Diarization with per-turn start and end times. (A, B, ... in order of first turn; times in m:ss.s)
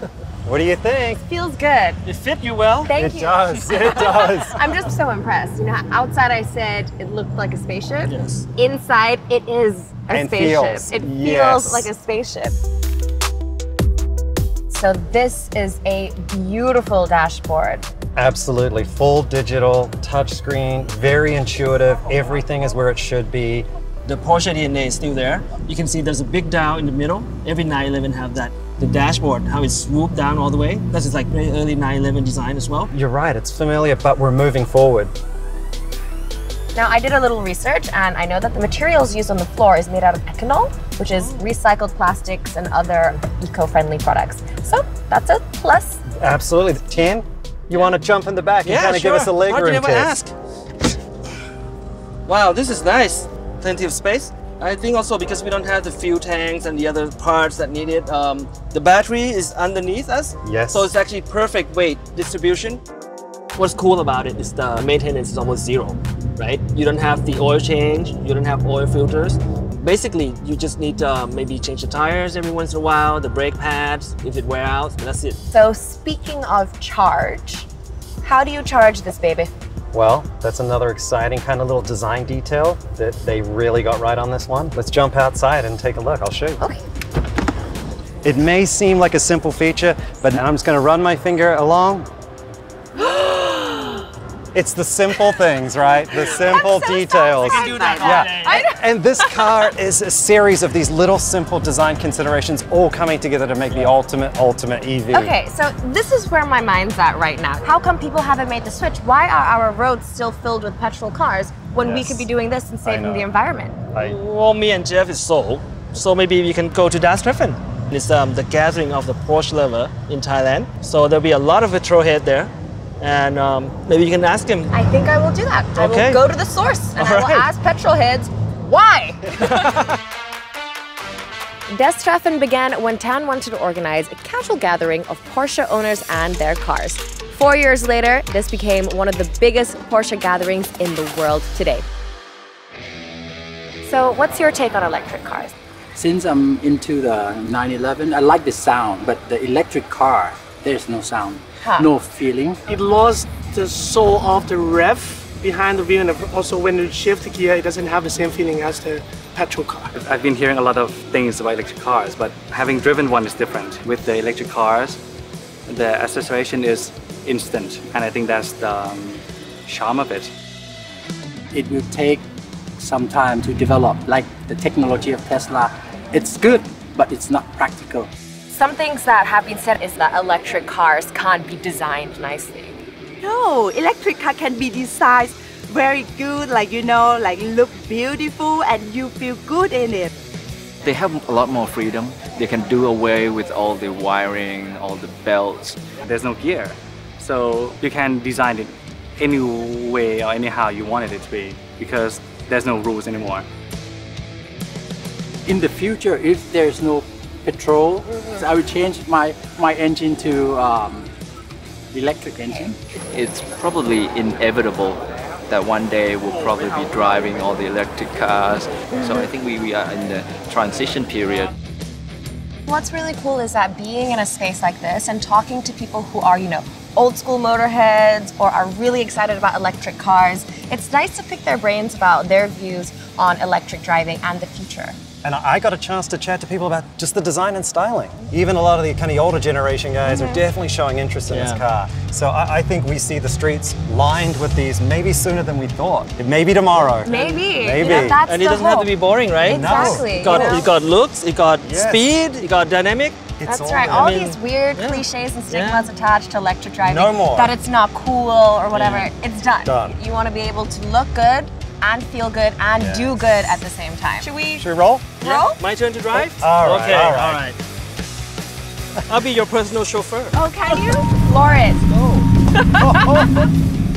0:00.4-0:01.2 A
0:01.2-0:02.0 B
0:02.0-0:02.9 C
0:02.8-0:12.6 B
0:02.9-0:04.6 A
0:08.0-0:08.4 C
0:10.1-0:11.9 A
0:14.7-0:17.8 B
0:18.2-0:23.7 A
0:24.0-0:32.9 C
0:32.9-0:35.1 A
0:36.7-0:46.0 B
0:46.2-0:50.2 A
0:48.6-0:50.3 C
0:52.2-1:02.8 C
1:00.4-1:00.9 A
1:03.5-1:15.4 C
1:15.5-1:17.7 B
1:18.2-1:19.5 B
1:19.9-1:26.6 A
1:28.2-1:32.1 A
1:33.0-1:34.0 B
1:34.5-1:45.3 A
1:36.2-1:38.8 B
1:37.5-1:38.5 C
1:45.1-1:53.8 B
1:51.8-1:52.3 A
1:52.8-1:53.3 A
1:54.0-2:04.7 C
2:04.7-2:09.9 B
2:05.7-2:06.2 C
2:07.0-2:07.5 C
2:09.4-2:09.9 C
2:11.7-2:21.8 B
2:23.8-2:25.5 B
2:25.9-2:32.6 D
2:31.6-2:31.9 B
2:32.7-2:39.9 E
2:40.0-2:45.0 F
2:45.7-2:50.3 F
2:51.5-2:52.2 D
2:52.8-2:58.1 D
2:58.5-3:02.8 B
3:03.2-3:10.1 G
3:10.8-3:15.8 H
3:16.0-3:23.4 F
3:25.4-3:31.1 D
3:31.9-3:32.8 D
3:33.1-3:41.5 H
3:42.6-3:55.0 B
3:55.2-4:08.2 A
4:00.1-4:00.4 B
4:01.3-4:01.6 C
4:07.0-4:08.9 B
4:07.1-4:13.2 C
4:09.4-4:10.7 B
4:09.4-4:10.6 A
4:11.6-4:12.1 A
4:13.4-4:14.2 A
4:13.4-4:24.6 B
4:13.9-4:15.9 C
4:16.8-4:17.5 A
4:18.7-4:19.1 C
4:19.6-4:20.0 A
4:22.8-4:23.4 A
4:24.6-4:25.2 A
4:25.2-4:25.6 B
4:25.2-4:27.6 C
4:26.1-4:27.4 A
4:29.1-4:30.4 C
4:30.3-4:31.8 B
4:31.9-4:32.2 C
4:32.6-4:33.3 B
4:32.7-4:33.5 A